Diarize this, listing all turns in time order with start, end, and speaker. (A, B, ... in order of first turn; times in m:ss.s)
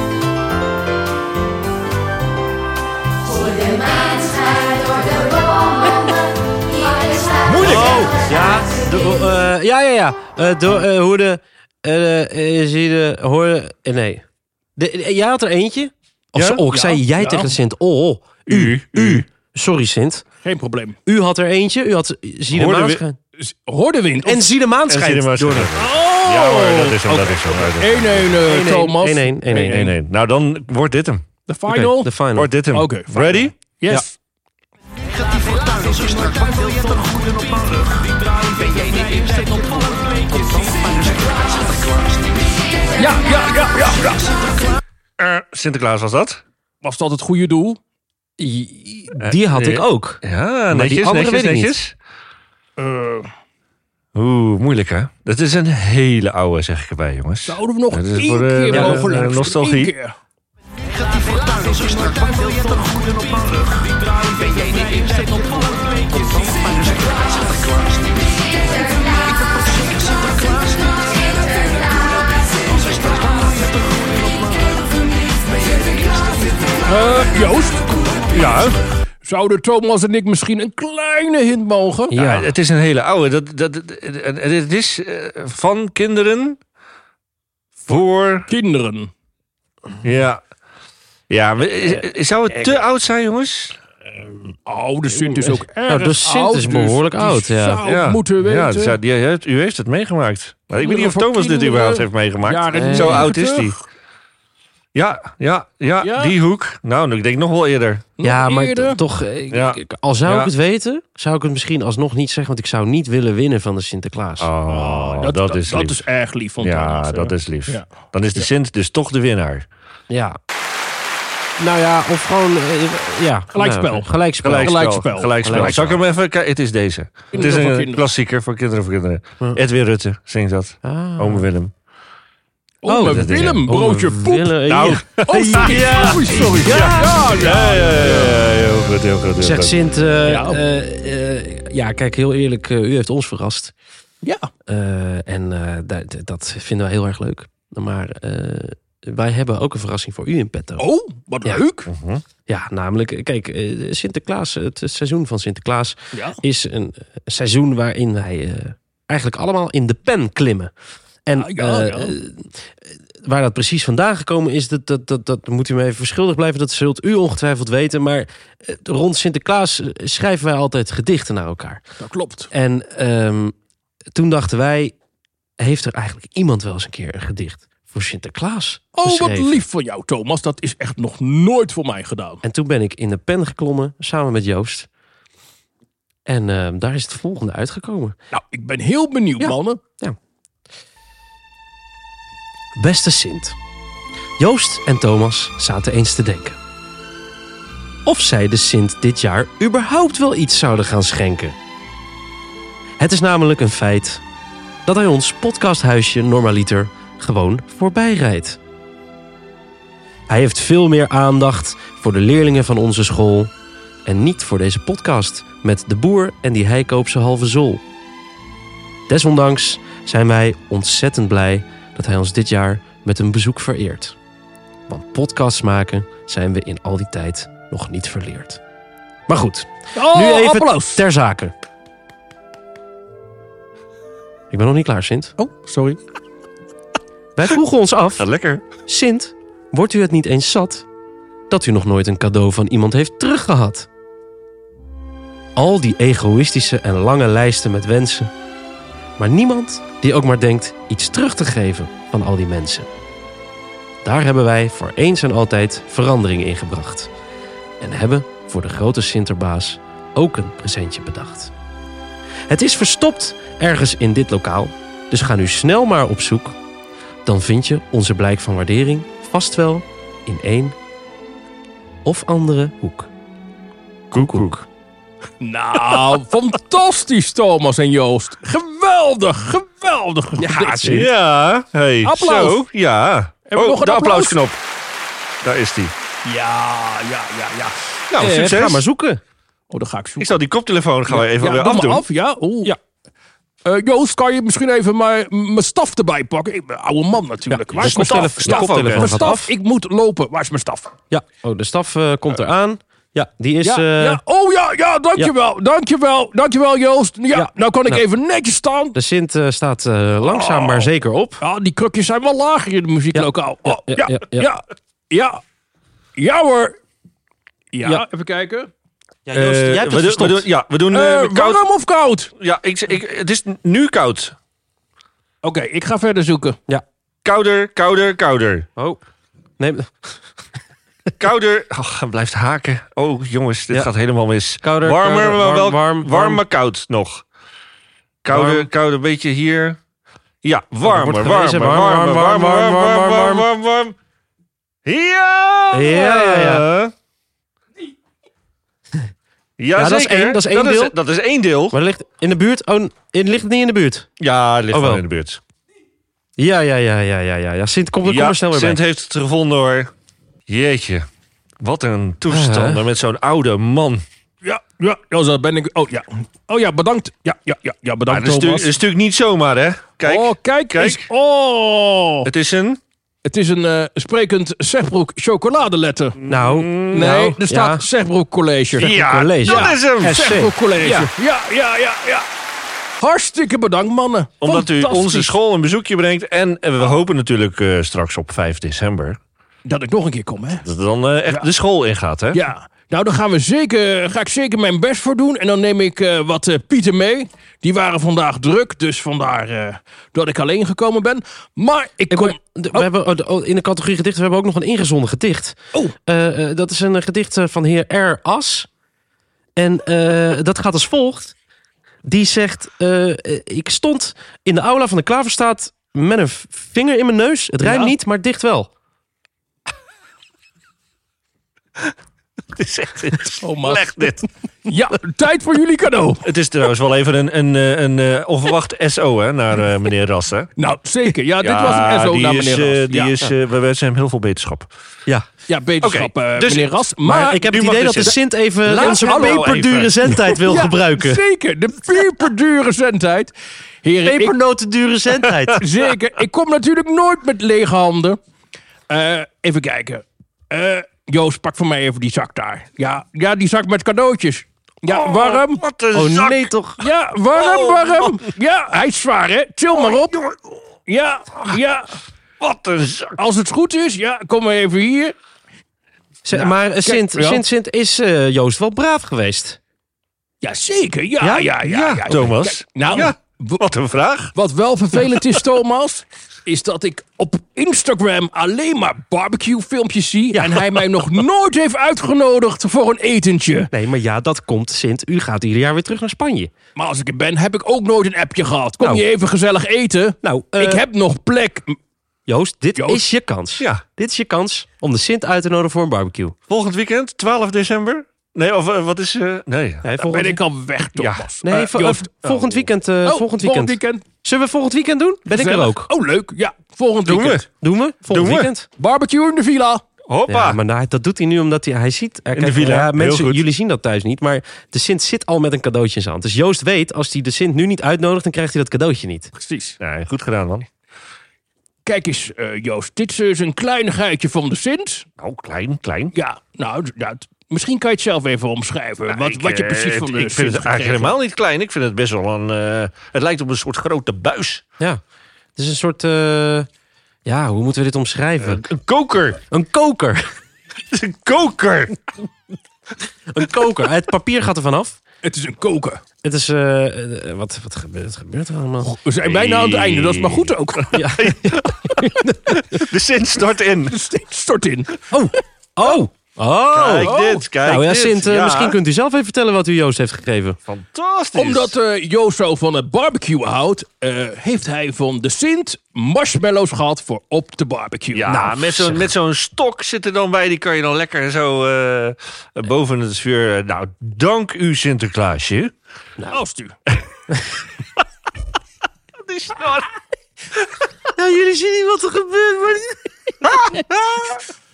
0:07.5-0:08.1 A
0:07.6-0:14.2 B
0:14.8-0:20.2 B
0:16.3-0:16.6 A
0:16.7-0:17.5 C
0:18.5-0:19.2 A
0:20.4-0:21.0 C
0:21.0-0:23.2 B
0:22.5-0:23.0 A
0:23.4-0:24.5 C
0:24.2-0:25.7 B
0:24.9-0:28.5 A
0:25.8-0:29.9 C
0:28.4-0:29.9 B
0:29.5-0:31.2 A
0:31.5-0:32.1 C
0:31.7-0:32.5 B
0:32.3-0:33.5 A
0:32.7-0:34.1 C
0:35.3-0:41.6 C
0:43.0-0:44.4 C
0:45.2-0:46.4 A
0:46.8-0:47.8 C
0:48.4-0:51.7 B
0:49.2-0:51.9 A
0:52.8-0:53.3 C
0:54.1-0:59.9 A
0:57.5-1:00.1 C
0:58.7-0:59.1 B
1:01.2-1:03.9 C
1:04.4-1:07.1 C
1:13.0-1:13.6 C
1:16.8-1:22.2 C
1:18.3-1:18.8 A
1:22.1-1:22.5 B
1:22.1-1:26.6 A
1:27.8-1:28.5 A
1:28.5-1:29.1 C
1:30.0-1:30.4 A
1:31.3-1:33.8 A
1:34.6-1:39.0 C
1:35.2-1:37.8 B
1:37.8-1:43.8 A
1:40.8-1:43.8 C
1:42.7-1:43.3 B
1:44.9-1:48.1 A
1:46.0-1:46.3 C
1:48.2-1:49.0 C
1:48.2-1:54.5 B
1:49.5-1:50.5 A
1:54.4-1:56.0 A
1:54.7-1:58.5 C
1:56.6-1:59.6 A
2:00.1-2:00.4 B
2:01.6-2:04.8 B
2:03.5-2:05.9 C
2:04.4-2:11.7 A
2:05.4-2:05.8 B
2:07.3-2:08.0 C
2:10.8-2:11.4 B
2:12.8-2:18.4 C
2:12.9-2:17.2 B
2:13.0-2:13.6 A
2:14.7-2:19.7 A
2:19.4-2:23.7 B
2:20.3-2:20.6 C
2:24.2-2:24.5 C
2:24.7-2:30.8 B
2:30.8-2:31.9 C
2:31.9-2:32.2 A
2:32.4-2:40.7 B
2:36.1-2:36.4 C
2:41.2-2:42.6 B
2:41.4-2:42.1 C
2:43.2-2:51.8 B
2:52.0-2:52.5 C
2:52.5-2:53.5 B
2:54.1-2:54.9 B
2:55.6-2:59.6 B
2:58.9-3:02.4 C
3:02.4-3:04.9 B
3:06.2-3:08.2 B
3:08.3-3:09.8 C
3:09.4-3:10.2 B
3:12.8-3:13.6 B
3:14.4-3:16.6 B
3:18.0-3:21.5 B
3:23.0-3:24.2 B
3:24.8-3:28.6 B
3:30.3-3:33.5 B
3:34.0-3:37.8 B
3:39.1-3:44.2 B
3:44.9-3:48.6 B
3:49.3-3:51.5 B
3:49.9-3:51.0 C
3:54.5-3:55.3 B
3:55.4-3:56.0 C
3:57.4-3:58.3 B
3:58.2-3:58.6 A
3:58.8-4:00.8 B
4:01.5-4:03.9 B
4:05.6-4:08.3 B
4:09.2-4:12.9 B
4:14.0-4:17.1 B
4:17.8-4:21.5 B
4:22.5-4:26.6 B
4:27.2-4:30.8 B
4:32.0-4:33.1 B
4:34.1-4:34.6 A
4:34.1-4:34.5 B
4:35.4-4:41.1 C
4:40.4-4:41.1 B
4:40.8-4:44.6 A
4:42.0-4:42.6 C
4:43.5-4:44.4 C
4:45.4-4:45.9 A
4:46.2-4:48.0 C
4:48.1-4:48.8 A
4:48.2-4:49.2 B
4:49.7-4:50.4 C
4:50.2-4:52.0 A
4:51.1-4:52.7 C
4:53.6-5:00.9 C
4:57.5-4:59.5 B
4:57.8-4:59.2 A
5:01.1-5:04.2 B
5:03.6-5:09.0 C
5:07.3-5:08.0 B
5:08.9-5:11.4 B
5:10.2-5:10.9 C
5:11.4-5:15.4 C
5:13.1-5:14.5 B
5:16.2-5:16.8 C
5:17.7-5:18.7 C
5:19.2-5:20.4 B
5:19.3-5:21.6 A
5:20.9-5:22.3 C
5:22.4-5:24.3 A
5:25.4-5:26.6 C
5:27.2-5:28.7 A
5:28.8-5:29.0 B
5:29.6-5:30.1 B
5:31.2-5:37.2 A
5:34.6-5:36.4 B
5:38.2-5:39.8 A
5:38.3-5:38.7 B
5:40.4-5:44.0 A
5:40.8-5:43.5 B
5:44.8-5:46.9 A
5:45.7-5:46.6 B
5:49.6-5:51.8 A
5:49.8-5:50.9 B
5:51.7-5:54.1 B
5:54.2-5:55.4 A
5:54.7-5:55.0 B
5:56.4-5:58.8 B
5:58.0-5:59.9 A
6:00.5-6:01.1 A
6:01.6-6:04.0 A
6:02.3-6:02.8 B
6:04.4-6:08.7 C
6:08.1-6:11.1 A
6:10.0-6:12.3 C
6:12.2-6:12.8 A
6:13.2-6:16.2 C
6:16.2-6:17.1 A
6:16.3-6:17.8 B
6:16.9-6:22.3 C
6:18.8-6:20.4 A
6:18.8-6:21.1 B
6:23.0-6:25.3 C
6:24.4-6:29.2 A
6:29.6-6:30.6 C
6:30.6-6:32.4 A
6:32.3-6:42.9 C
6:42.1-6:48.7 B
6:49.6-6:51.3 B
6:52.0-6:58.7 B
6:57.6-6:57.9 C
7:02.5-7:04.3 A
7:03.4-7:06.3 C
7:06.2-7:10.5 A
7:10.6-7:13.1 C
7:11.4-7:14.7 A
7:15.5-7:18.0 C
7:15.8-7:16.7 A
7:17.0-7:21.2 B
7:17.5-7:18.2 A
7:18.7-7:19.6 C
7:18.7-7:19.9 A
7:20.1-7:24.4 C
7:24.0-7:25.6 B
7:25.2-7:25.6 A
7:25.6-7:28.2 C
7:28.9-7:35.6 C
7:34.9-7:36.5 A
7:35.9-7:36.8 B
7:36.8-7:40.2 C
7:37.3-7:38.3 A
7:39.8-7:40.5 A
7:40.9-7:41.9 C
7:42.4-7:43.2 A
7:43.2-7:45.1 C
7:46.2-7:49.6 B
7:46.3-7:47.4 C
7:50.4-7:53.6 C
7:51.2-7:51.5 B
7:51.6-7:54.3 A
7:54.3-8:03.7 C
8:00.3-8:00.7 B
8:03.7-8:06.5 B
8:06.8-8:11.8 C
8:10.2-8:10.8 B
8:12.3-8:16.3 B
8:12.8-8:13.0 C
8:16.5-8:19.8 A
8:19.8-8:20.4 B
8:20.0-8:22.1 C
8:21.0-8:21.3 A
8:21.4-8:25.9 B
8:22.2-8:22.7 A
8:23.0-8:24.0 C
8:25.3-8:27.5 C
8:27.0-8:27.4 A
8:27.6-8:28.7 B
8:28.1-8:28.5 A
8:28.7-8:29.8 C
8:30.1-8:30.6 A
8:30.3-8:39.3 B
8:32.3-8:33.4 A
8:39.3-8:39.8 C
8:39.8-8:40.7 A
8:41.8-8:45.0 C
8:45.2-8:46.1 A
8:46.1-8:51.1 C
8:49.1-8:54.6 A
8:55.6-8:56.7 B
8:57.2-8:58.7 B
8:58.4-8:59.4 A
8:59.4-9:00.3 B
9:00.9-9:02.0 A
9:03.3-9:05.0 B
9:05.2-9:06.0 C
9:06.2-9:08.9 B
9:08.8-9:11.1 C
9:09.2-9:14.0 A
9:10.9-9:12.8 B
9:13.9-9:15.0 C
9:15.1-9:20.6 B
9:16.7-9:18.8 A
9:17.0-9:17.4 C
9:20.7-9:21.7 A
9:21.3-9:28.4 C
9:28.1-9:35.7 A
9:28.3-9:29.1 B
9:36.3-9:36.8 C
9:39.2-9:39.9 A
9:41.1-9:43.9 B
9:43.6-9:44.4 A